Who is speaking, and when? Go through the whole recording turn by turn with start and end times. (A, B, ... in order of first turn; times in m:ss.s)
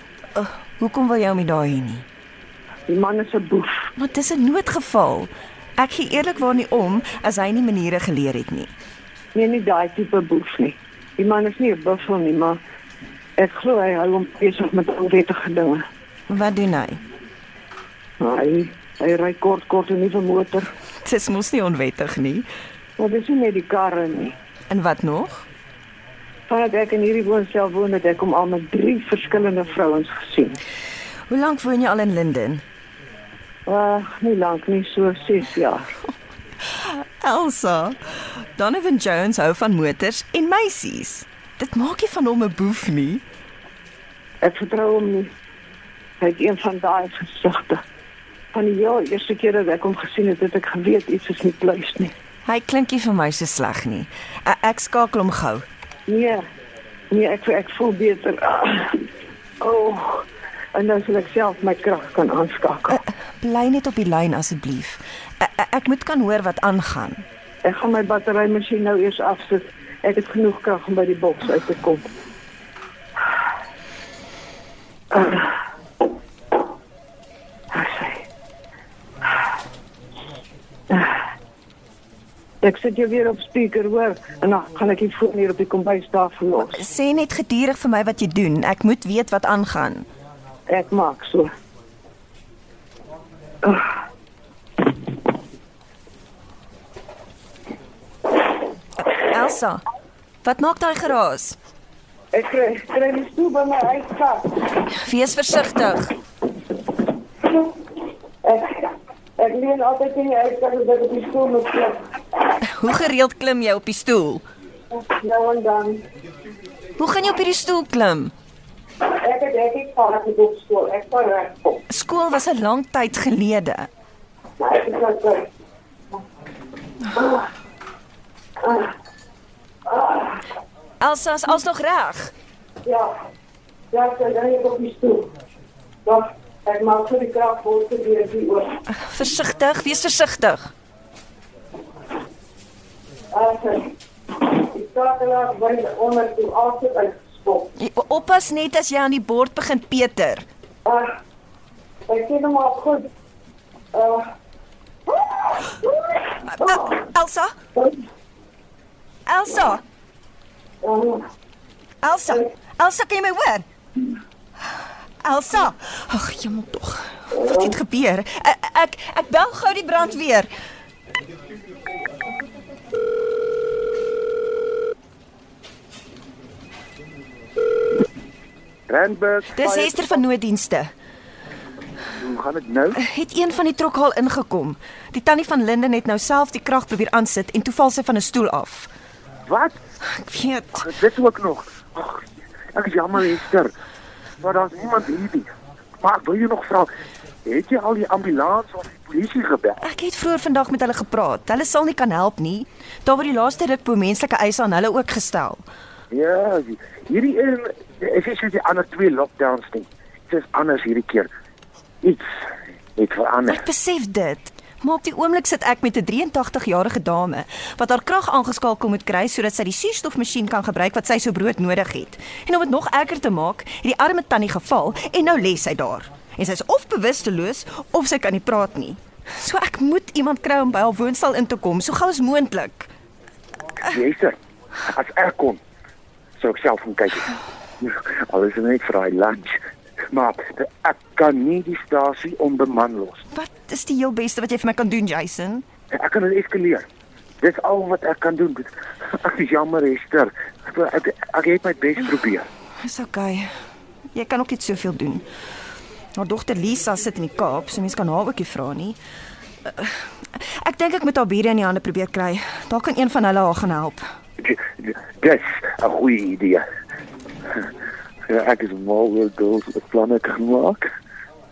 0:00.3-0:02.1 A
0:02.9-0:03.9 B
0:04.0-0:08.7 A
0:09.3-0:12.6 B
0:13.4-0:15.8 B
0:16.3-0:17.0 A
0:18.2-0:20.7 B
0:21.0-0:22.5 A
0:23.0-0:24.4 B
0:24.7-0:25.4 A
0:26.5-0:30.6 B
0:31.3-0:32.6 A
0:33.7-0:35.9 B
0:36.6-0:43.2 A
0:44.4-0:45.3 B
0:46.2-0:47.8 B
0:48.5-0:52.1 B
0:52.4-0:55.7 A
0:56.1-0:56.4 B
0:57.1-0:59.1 B
0:59.6-1:03.0 B
1:02.9-1:07.2 A
1:07.6-1:12.0 B
1:15.1-1:15.5 B
1:17.7-1:18.2 B
1:20.9-1:21.2 B
1:22.6-1:26.8 B
1:26.6-1:30.1 A
1:30.7-1:31.5 B
1:39.0-1:39.8 A
1:40.4-1:41.6 A
1:42.3-1:44.7 B
1:44.9-1:46.2 A
1:48.4-1:52.0 B
1:52.6-1:54.4 A
1:54.9-1:56.0 B
1:57.0-1:58.3 A
1:59.0-2:01.8 B
2:01.9-2:03.9 A
2:04.6-2:05.5 B
2:07.1-2:07.5 B
2:08.6-2:08.9 B
2:09.9-2:10.4 B
2:11.0-2:12.3 A
2:12.8-2:13.1 B
2:13.9-2:15.3 B
2:16.0-2:18.8 B
2:18.9-2:20.7 A
2:23.3-2:27.8 B
2:27.8-2:30.4 A
2:30.8-2:31.2 B
2:32.1-2:33.1 B
2:33.9-2:34.3 B
2:35.1-2:36.9 B
2:36.5-2:37.5 A
2:39.3-2:39.8 A
2:40.8-2:41.3 B
2:42.0-2:43.6 A
2:45.2-2:50.5 A
2:47.4-2:47.7 B
2:58.9-3:00.0 C
2:59.6-3:00.9 A
3:02.2-3:03.0 C
3:03.0-3:08.9 A
3:09.4-3:09.8 C
3:10.1-3:10.9 A
3:10.8-3:13.7 C
3:14.4-3:15.5 C
3:16.0-3:16.9 C
3:17.5-3:19.8 C
3:19.8-3:25.6 A
3:26.1-3:31.3 C
3:32.0-3:32.3 C
3:33.0-3:33.6 C
3:33.5-3:52.9 A
3:53.9-3:54.4 C
3:54.9-3:55.6 C
3:56.4-3:57.3 C
3:57.8-4:03.3 C
4:03.3-4:05.6 A
4:05.9-4:06.9 C
4:07.4-4:12.5 C
4:12.8-4:13.5 A
4:14.1-4:15.3 A
4:16.2-4:19.0 A
4:19.6-4:24.0 A
4:24.4-4:26.6 C
4:28.3-4:30.9 C